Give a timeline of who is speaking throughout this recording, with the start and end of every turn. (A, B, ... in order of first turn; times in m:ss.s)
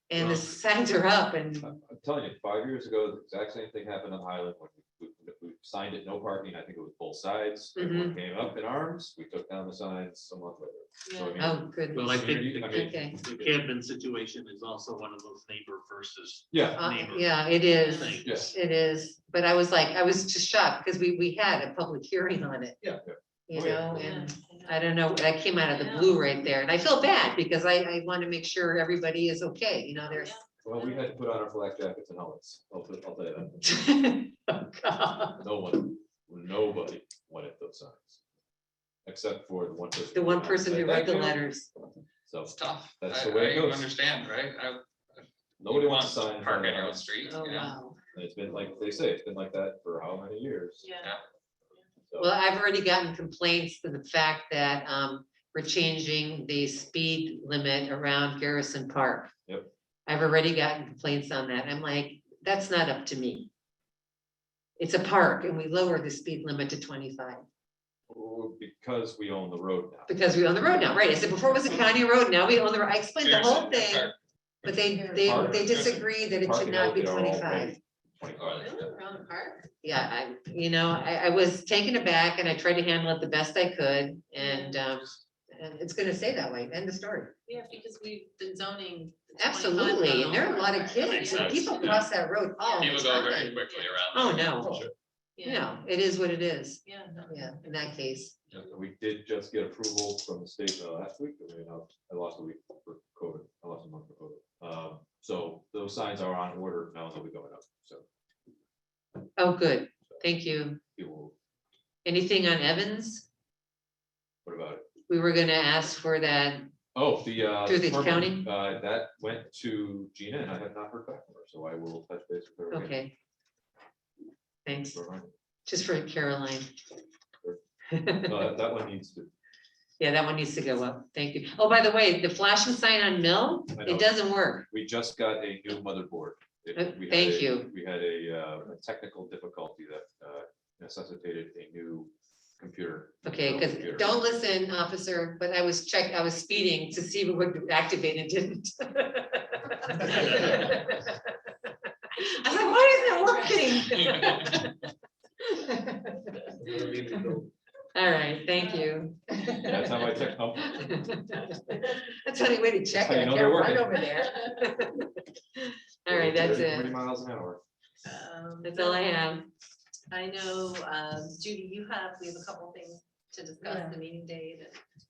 0:00.1-0:01.8 A
0:00.2-0:00.4 B
0:01.6-0:13.6 B
0:07.8-0:08.2 A
0:11.0-0:11.5 C
0:11.4-0:13.2 A
0:11.9-0:18.5 D
0:16.5-0:16.8 B
0:16.7-0:22.8 A
0:17.7-0:18.2 C
0:18.2-0:18.5 B
0:22.8-0:24.1 B
0:23.5-0:30.4 A
0:23.9-0:25.0 C
0:25.7-0:26.4 C
0:30.1-0:31.0 C
0:30.6-0:33.6 B
0:33.6-0:34.7 A
0:34.8-0:35.3 C
0:35.4-0:38.2 B
0:39.1-0:41.4 B
0:40.1-0:41.7 A
0:42.3-0:43.9 B
0:42.5-0:47.8 E
0:45.6-0:47.1 B
0:47.4-0:48.0 C
0:47.4-0:47.9 A
0:48.1-0:50.8 B
0:50.8-0:51.1 C
0:52.2-0:59.3 A
1:00.1-1:03.5 A
1:04.8-1:07.4 A
1:08.1-1:12.0 B
1:10.1-1:14.1 A
1:13.2-1:14.7 E
1:14.6-1:17.8 A
1:14.9-1:15.6 C
1:15.2-1:18.9 B
1:15.6-1:16.0 E
1:18.4-1:19.7 C
1:19.8-1:27.4 A
1:24.4-1:24.8 C
1:27.5-1:32.0 C
1:29.4-1:33.6 A
1:31.0-1:32.1 E
1:32.6-1:34.0 C
1:32.8-1:34.9 E
1:34.1-1:34.9 A
1:35.4-1:35.8 C
1:35.4-1:38.4 A
1:36.8-1:38.1 C
1:38.5-1:48.0 B
1:49.4-1:50.8 A
1:51.0-1:51.3 B
1:52.0-1:53.3 A
1:54.4-1:54.9 B
1:55.1-1:56.7 A
1:57.0-2:03.0 B
1:57.6-1:58.5 A
2:02.7-2:03.1 A
2:04.6-2:05.0 A
2:04.9-2:05.3 B
2:05.7-2:06.7 A
2:07.9-2:08.5 A
2:08.3-2:09.3 B
2:10.0-2:14.7 A
2:13.8-2:14.1 B
2:14.7-2:24.2 B
2:16.8-2:17.7 A
2:23.2-2:31.2 A
2:32.2-2:34.8 A
2:34.2-2:34.5 E
2:35.4-2:36.3 A
2:36.7-2:37.3 D
2:38.0-2:40.0 A
2:39.6-2:41.0 B
2:40.6-2:46.9 A
2:43.0-2:44.0 B
2:44.1-2:44.7 C
2:46.1-2:47.6 B
2:48.0-2:49.1 C
2:48.6-2:49.5 A
2:50.1-2:54.8 C